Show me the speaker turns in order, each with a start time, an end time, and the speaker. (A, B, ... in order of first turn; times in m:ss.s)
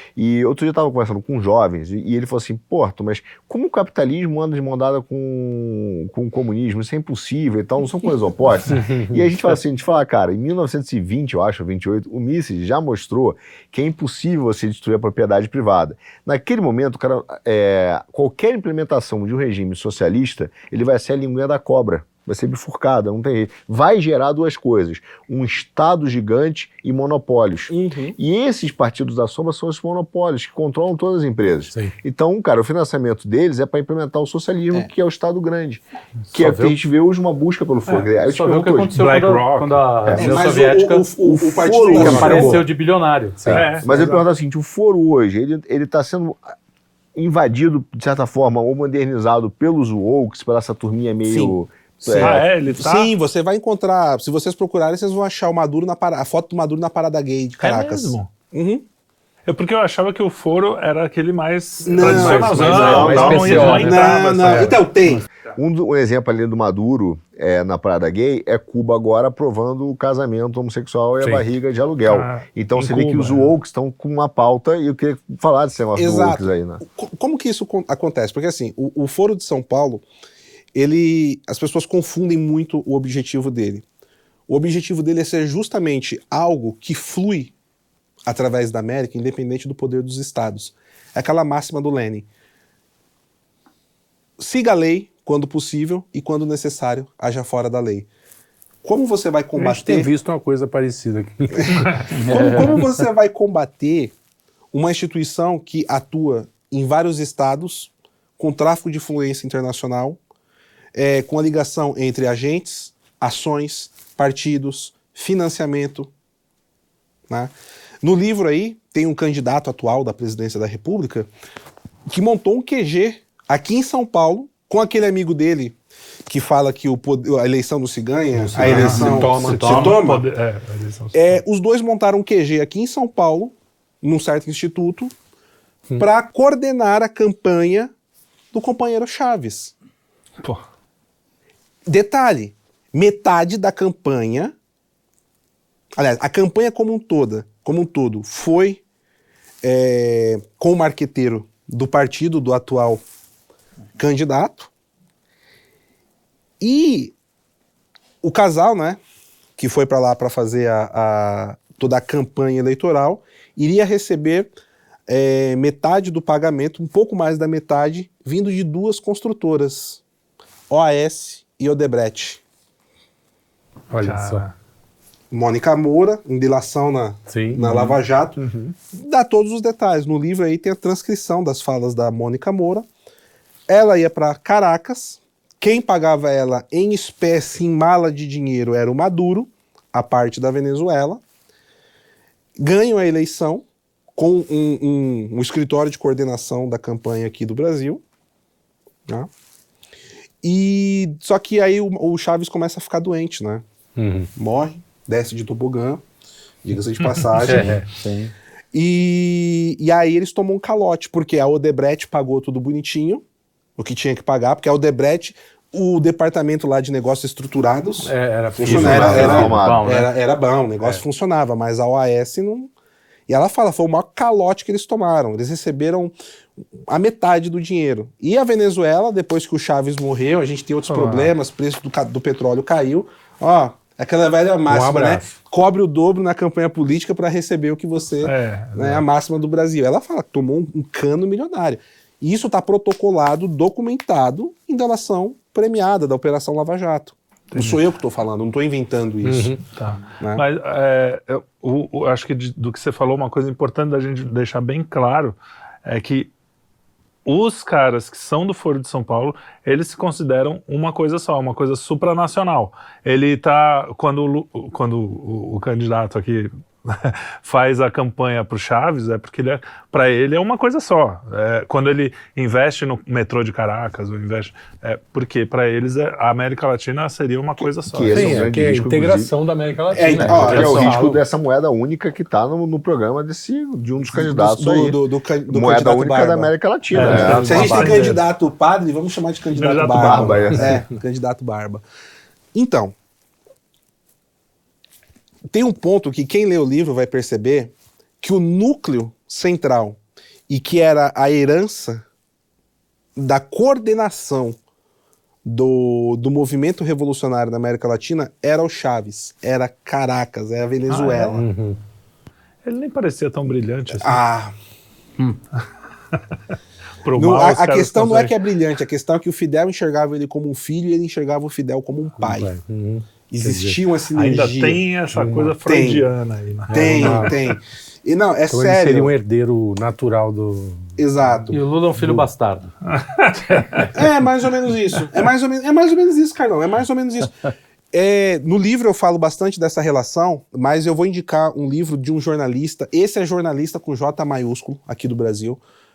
0:00.2-0:39.0 A
0:08.7-0:09.2 B
0:27.7-0:28.2 C
0:36.3-0:36.8 D
0:38.3-0:41.1 D
0:38.9-0:39.8 E
0:40.0-0:40.6 A
0:40.1-0:42.6 C
0:41.2-0:42.6 A
0:41.9-0:43.7 D
0:42.0-0:42.5 B
0:43.4-0:46.4 A
0:43.5-0:43.9 E
0:43.8-0:44.2 C
0:47.1-0:52.4 A
0:51.2-0:58.8 C
0:52.1-0:53.1 E
0:57.6-0:58.3 E
0:59.4-1:04.8 E
1:01.8-1:05.2 C
1:02.0-1:04.8 B
1:02.7-1:03.7 A
1:03.3-1:03.8 D
1:05.4-1:16.8 A
1:11.2-1:11.5 B
1:12.0-1:13.5 E
1:16.0-1:20.0 C
1:20.7-1:23.8 C
1:24.5-1:27.5 C
1:28.2-1:32.3 C
1:34.4-1:38.1 C
1:38.8-1:40.1 C
1:39.5-1:42.0 B
1:41.5-1:44.1 C
1:42.1-1:42.8 D
1:44.7-1:50.2 C
1:50.9-1:56.1 C
1:57.3-2:01.3 C
2:02.1-2:10.2 C
2:08.3-2:10.0 B
2:08.6-2:11.4 E
2:09.3-2:10.0 D
2:11.1-2:15.1 C
2:16.0-2:17.9 C
2:18.5-2:19.7 C
2:21.8-2:24.5 C
2:26.0-2:28.8 C
2:29.6-2:33.0 C
2:34.0-2:34.7 C
2:36.6-2:37.1 C
2:38.2-2:39.0 C
2:39.6-2:44.5 C
2:45.1-2:50.0 C
2:50.7-2:52.4 C
2:53.9-2:54.4 B
2:54.0-2:54.5 E
2:55.3-2:58.4 C
2:57.3-2:58.0 B
2:58.4-2:58.7 A
2:58.9-3:02.9 C
3:03.7-3:11.2 C
3:12.6-3:13.6 C
3:14.1-3:18.0 C
3:20.4-3:23.6 C
3:24.0-3:24.3 B
3:24.3-3:26.0 C
3:26.6-3:27.8 C
3:27.0-3:27.6 E
3:27.4-3:27.9 B
3:27.4-3:28.3 D
3:28.7-3:33.2 C
3:33.8-3:42.7 C
3:38.0-3:39.6 B
3:38.6-3:40.1 D
3:38.7-3:39.9 A
3:43.3-3:46.1 C
3:46.9-4:09.6 C
3:50.9-3:51.3 E
3:54.7-3:55.4 B
3:58.2-3:59.0 E
4:07.5-4:07.8 E
4:09.2-4:09.6 B
4:09.7-4:16.3 E
4:17.2-4:38.5 E
4:37.6-4:39.3 A
4:38.1-4:41.2 B
4:39.9-4:40.7 C
4:40.1-4:48.1 A
4:40.2-4:41.1 D
4:44.1-4:51.8 C
4:46.9-4:48.2 E
4:47.0-4:47.7 B
4:49.5-4:50.8 E
4:49.9-4:50.7 A
4:52.5-4:52.9 C
4:55.5-5:02.0 C
5:03.2-5:04.6 C
5:05.4-5:11.4 C
5:10.9-5:11.4 E
5:11.3-5:11.8 B
5:12.6-5:14.2 E
5:14.0-5:14.5 C
5:17.0-5:18.4 E
5:17.1-5:22.6 C
5:22.2-5:23.8 B
5:23.3-5:24.9 C
5:24.1-5:27.4 E
5:25.1-5:25.5 B
5:25.6-5:26.0 C
5:26.7-5:27.4 B
5:26.7-5:29.1 C
5:28.5-5:32.3 B
5:31.0-5:31.5 C
5:31.5-5:32.7 D
5:32.9-5:33.9 E
5:33.9-5:37.3 C
5:37.9-5:45.6 C